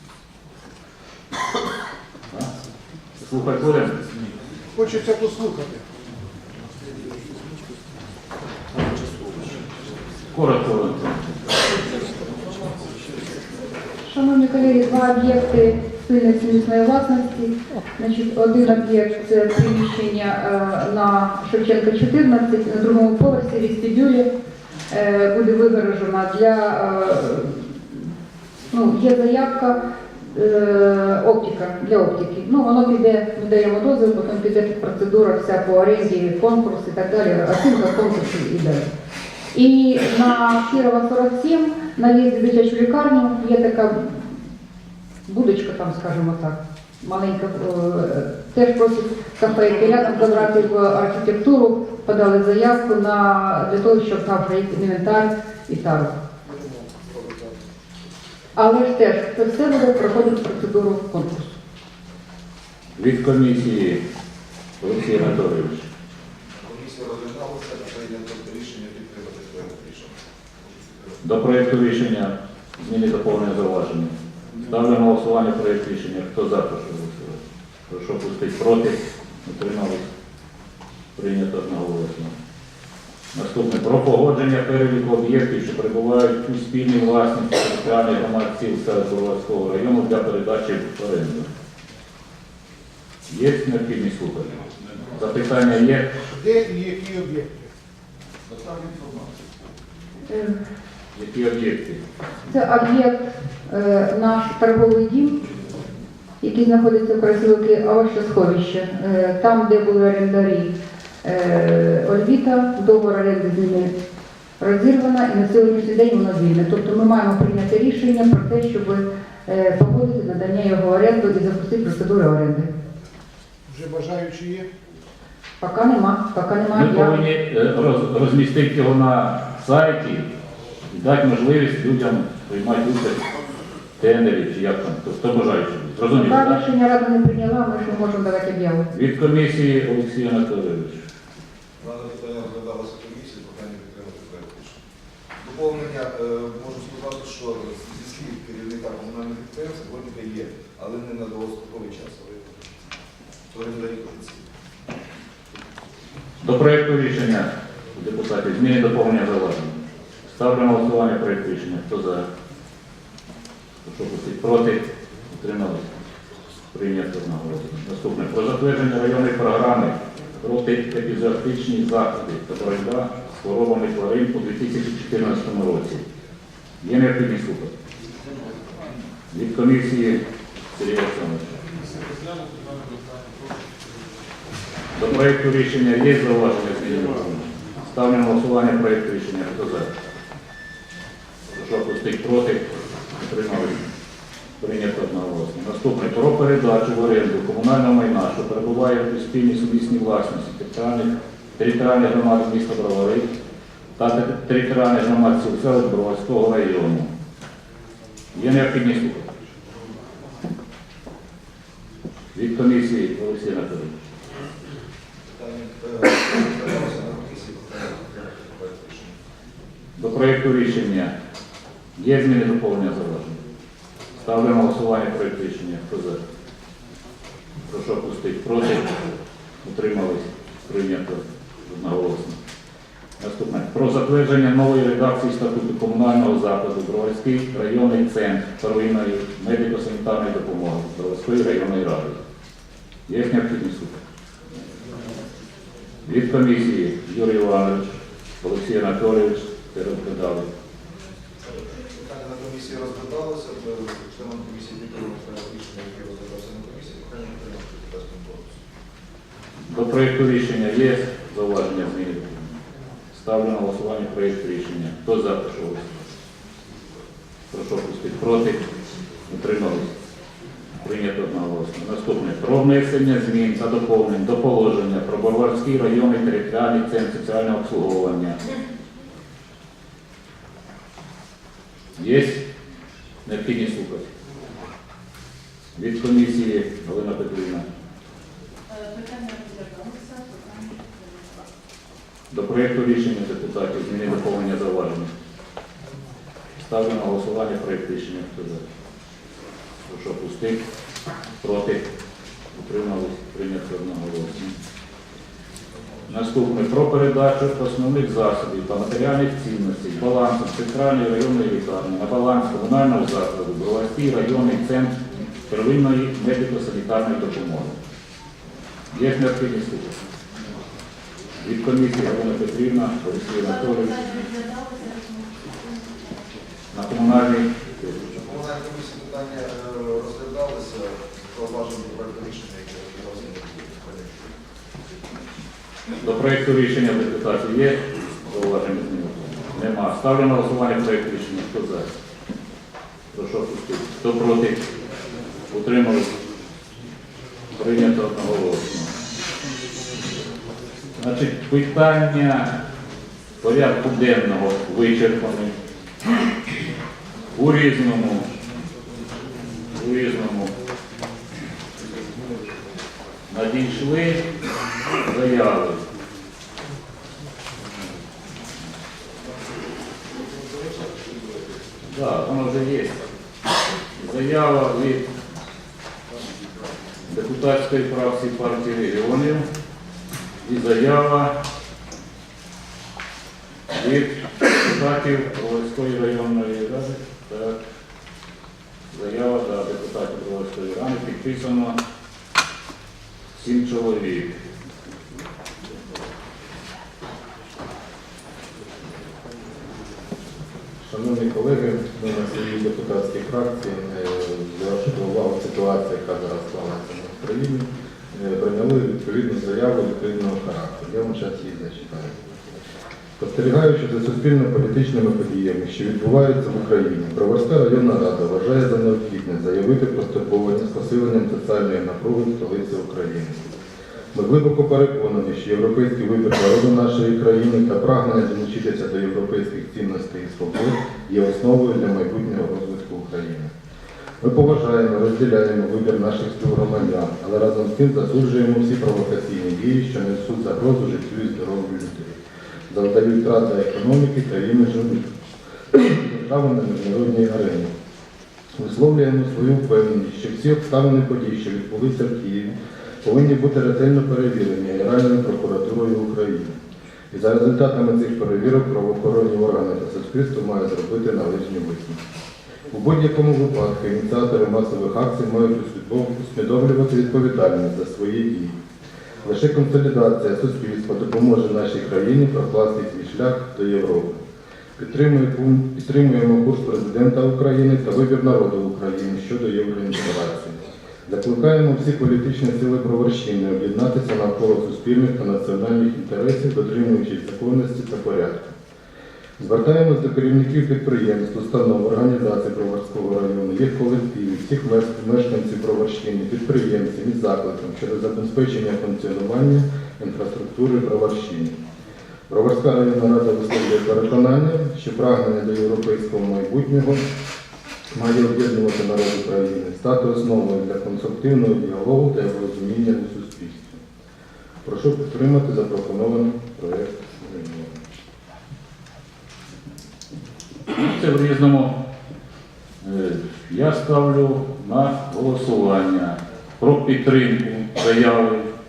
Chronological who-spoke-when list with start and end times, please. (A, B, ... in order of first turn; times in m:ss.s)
0:03.2-0:04.0 A
0:04.8-0:05.8 B
0:10.3-0:11.4 A
0:14.0-0:24.3 C
0:24.9-0:28.1 C
0:28.7-0:29.8 C
0:30.3-0:38.9 C
0:39.5-0:44.4 C
0:45.3-0:56.2 C
0:58.6-1:01.5 C
1:03.0-1:04.0 A
1:04.8-1:05.9 A
1:06.5-1:11.2 D
1:11.2-1:20.0 A
1:21.2-1:22.3 A
1:23.3-1:31.5 A
1:33.3-1:36.2 A
1:36.3-1:37.7 B
1:38.5-1:39.7 D
1:40.3-1:40.6 C
1:41.1-1:42.0 A
1:42.5-1:45.5 C
1:46.4-1:50.7 C
1:51.2-1:53.9 C
1:54.6-2:02.7 C
2:03.7-2:04.7 B
2:05.6-2:07.2 C
2:06.7-2:10.3 A
2:10.9-2:13.2 A
2:14.0-2:16.6 A
2:16.2-2:18.9 C
2:18.9-2:21.0 A
2:21.8-2:24.8 D
2:25.4-2:32.7 D
2:33.5-2:34.5 D
2:36.4-2:42.2 A
2:43.8-2:45.9 A
2:46.7-2:56.0 A
2:56.8-2:57.7 A
2:59.3-3:00.2 A
3:00.7-3:01.5 A
3:04.9-3:09.9 A
3:11.5-3:13.8 A
3:14.6-3:23.3 A
3:24.0-3:27.1 A
3:28.3-3:29.3 A
3:32.3-3:33.9 A
3:35.3-3:39.1 D
3:40.0-3:41.1 A
3:42.0-3:43.4 A
3:44.2-3:46.2 A
3:47.7-3:49.1 A
3:49.6-3:52.4 A
3:53.2-4:02.2 A
4:03.1-4:04.0 A
4:06.0-4:10.5 A
4:11.5-4:18.6 D
4:19.7-4:22.6 A
4:23.1-4:26.0 A
4:27.5-4:28.7 A
4:29.3-4:29.9 A
4:30.8-4:38.4 A
4:42.0-4:42.4 A
4:43.2-4:44.1 A
4:45.8-4:47.7 A
4:48.8-4:50.7 E
4:52.3-4:55.1 A
4:56.6-4:58.6 A
4:59.9-5:00.6 A
5:01.4-5:01.9 A
5:02.5-5:04.5 A
5:06.1-5:15.0 A
5:15.5-5:17.8 A
5:18.9-5:20.0 A
5:21.4-5:24.0 A
5:24.0-5:26.1 E
5:26.7-5:28.0 A
5:28.2-5:34.4 D
5:36.0-5:41.9 A
5:43.1-5:44.7 A
5:45.5-5:46.1 A
5:47.5-5:48.9 A
5:51.0-5:52.5 A
5:53.4-5:55.5 A
5:57.3-5:58.3 A
5:59.7-6:00.5 A
6:03.3-6:04.2 A
6:05.0-6:05.8 A
6:11.9-6:13.0 A
6:14.0-6:15.1 A
6:17.1-6:19.4 A
6:20.4-6:21.3 A
6:23.7-6:27.6 A
6:28.9-6:31.8 A
6:33.3-6:34.3 A
6:40.8-6:52.1 F
6:53.2-7:03.5 F
7:04.1-7:13.5 F
7:14.2-7:22.2 F
7:22.7-7:25.1 F
7:25.7-7:27.7 F
7:28.6-7:36.6 F
7:37.1-7:42.0 F
7:42.7-7:48.6 F
7:49.2-7:54.2 F
7:54.8-8:08.6 F
8:09.4-8:21.6 F
8:22.3-8:27.0 F
8:27.9-8:33.8 F
8:34.6-8:37.8 F
8:40.7-8:41.8 A
8:42.8-8:48.4 A